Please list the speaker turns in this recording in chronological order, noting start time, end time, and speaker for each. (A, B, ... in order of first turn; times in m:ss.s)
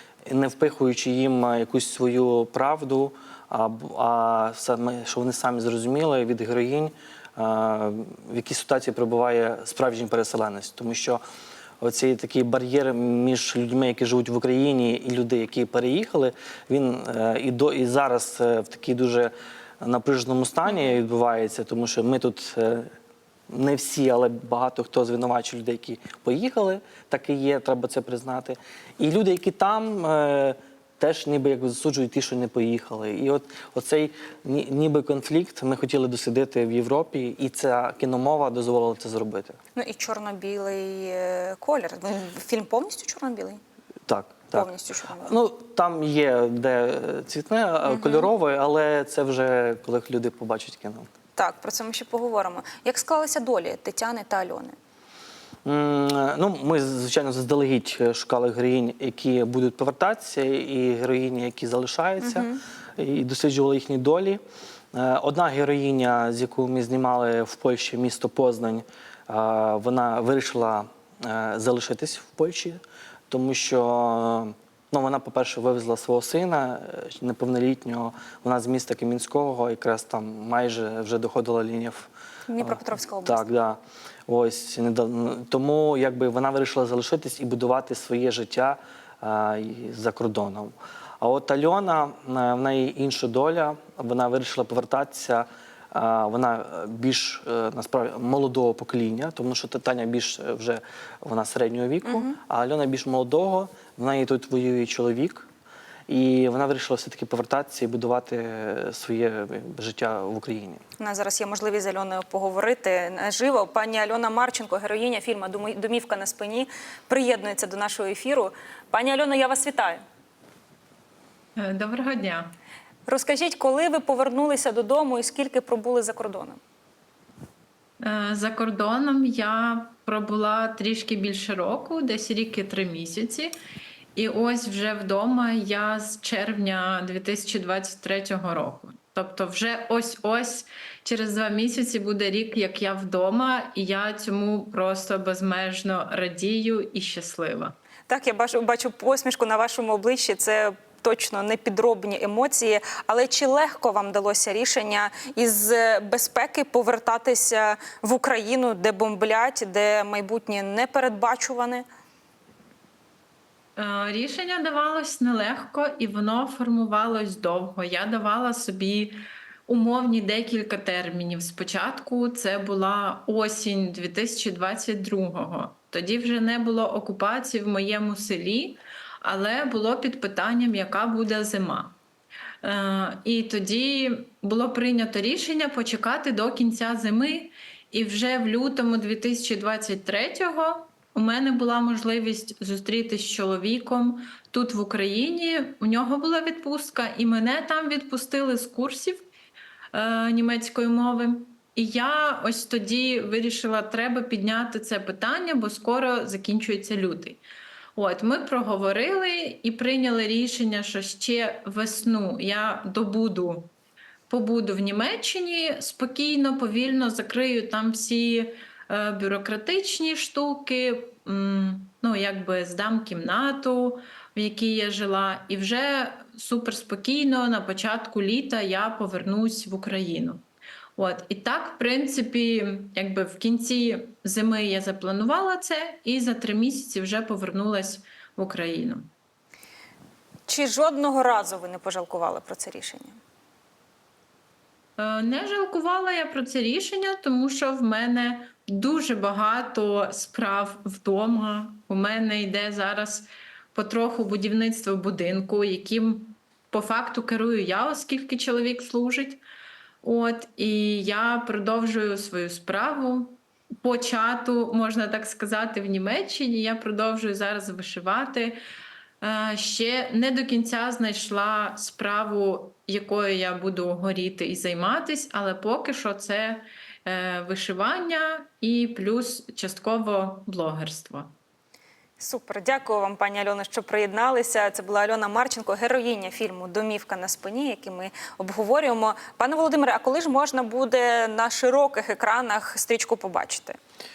0:00.2-0:11.2 A
0:11.8-0:22.9 A
0:23.5-0:39.6 A
0:39.8-0:43.6 B
0:44.1-0:44.7 A
0:44.5-0:45.3 B
0:45.2-0:51.1 A
0:47.8-0:48.3 B
0:51.4-0:54.7 B
0:55.6-1:04.4 A
1:02.2-1:02.6 B
1:04.9-1:22.1 A
1:22.5-1:23.4 B
1:22.6-1:45.5 A
1:42.0-1:42.3 B
1:46.1-1:50.8 A
1:51.0-2:00.0 B
2:01.6-2:02.6 C
2:03.1-2:06.6 B
2:08.0-2:13.5 C
2:14.2-2:27.8 C
2:28.1-2:41.8 B
2:43.8-3:02.0 C
3:02.6-3:19.2 C
3:19.9-3:27.4 C
3:28.0-3:33.7 C
3:34.3-3:50.4 C
3:51.0-3:59.1 C
4:00.5-4:03.2 B
4:05.0-4:19.4 C
4:20.0-4:28.6 C
4:29.2-4:41.3 C
4:42.2-4:53.8 B